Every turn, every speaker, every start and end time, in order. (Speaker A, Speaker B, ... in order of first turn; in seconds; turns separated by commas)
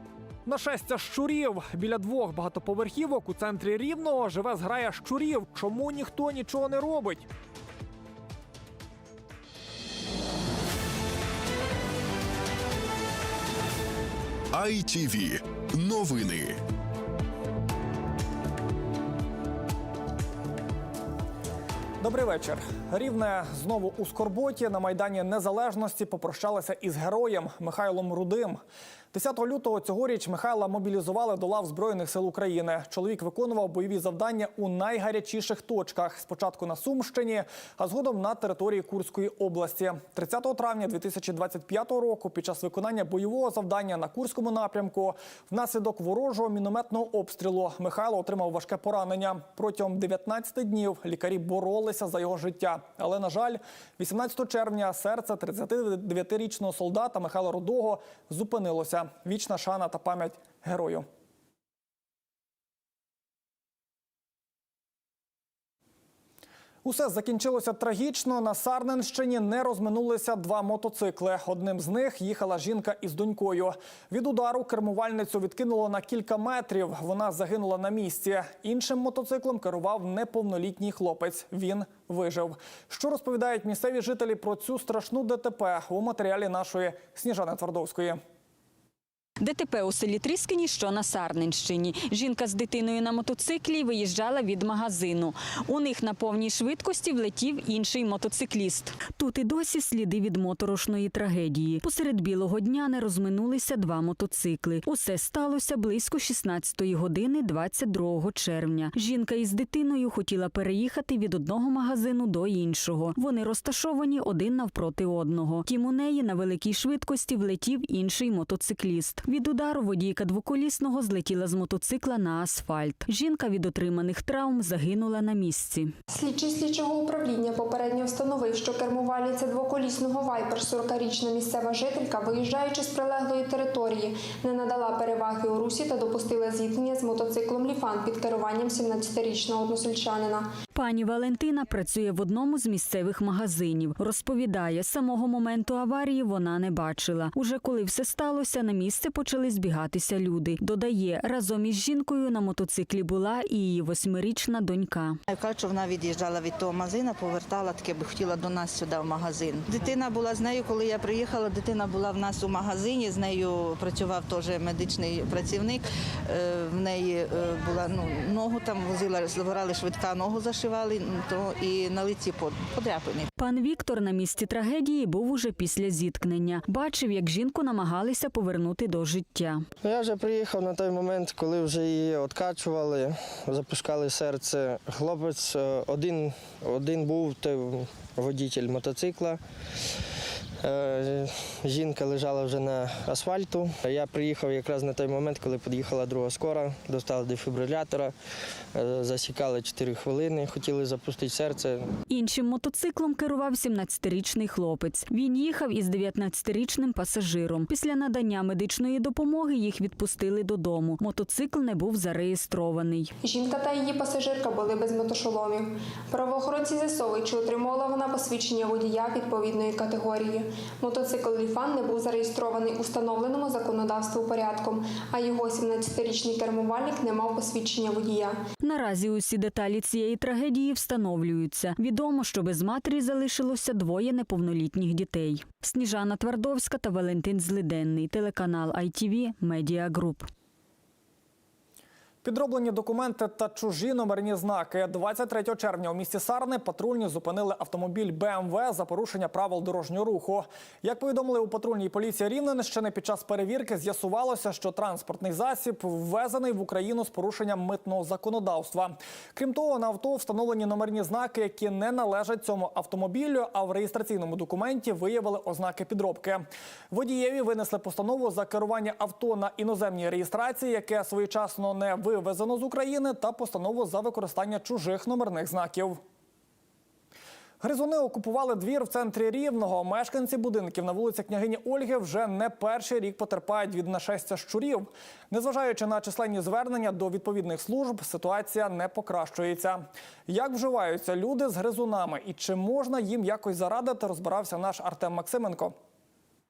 Speaker A: 0.5-7.2, Speaker B: 14.5-16.6, Speaker A: 22.0-28.6, Speaker A: 29.1-61.0, Speaker A: 66.8-88.2, Speaker C: 89.4-125.9, Speaker D: 126.1-140.5, Speaker C: 140.7-155.2, Speaker E: 155.3-173.3, Speaker C: 173.4-179.6, Speaker F: 179.8-189.4, Speaker F: 190.6-198.1, Speaker F: 198.7-201.9, Speaker C: 202.1-213.1, Speaker D: 213.2-228.4, Speaker C: 228.6-240.3, Speaker A: 242.2-276.0, Speaker A: 277.6-295.7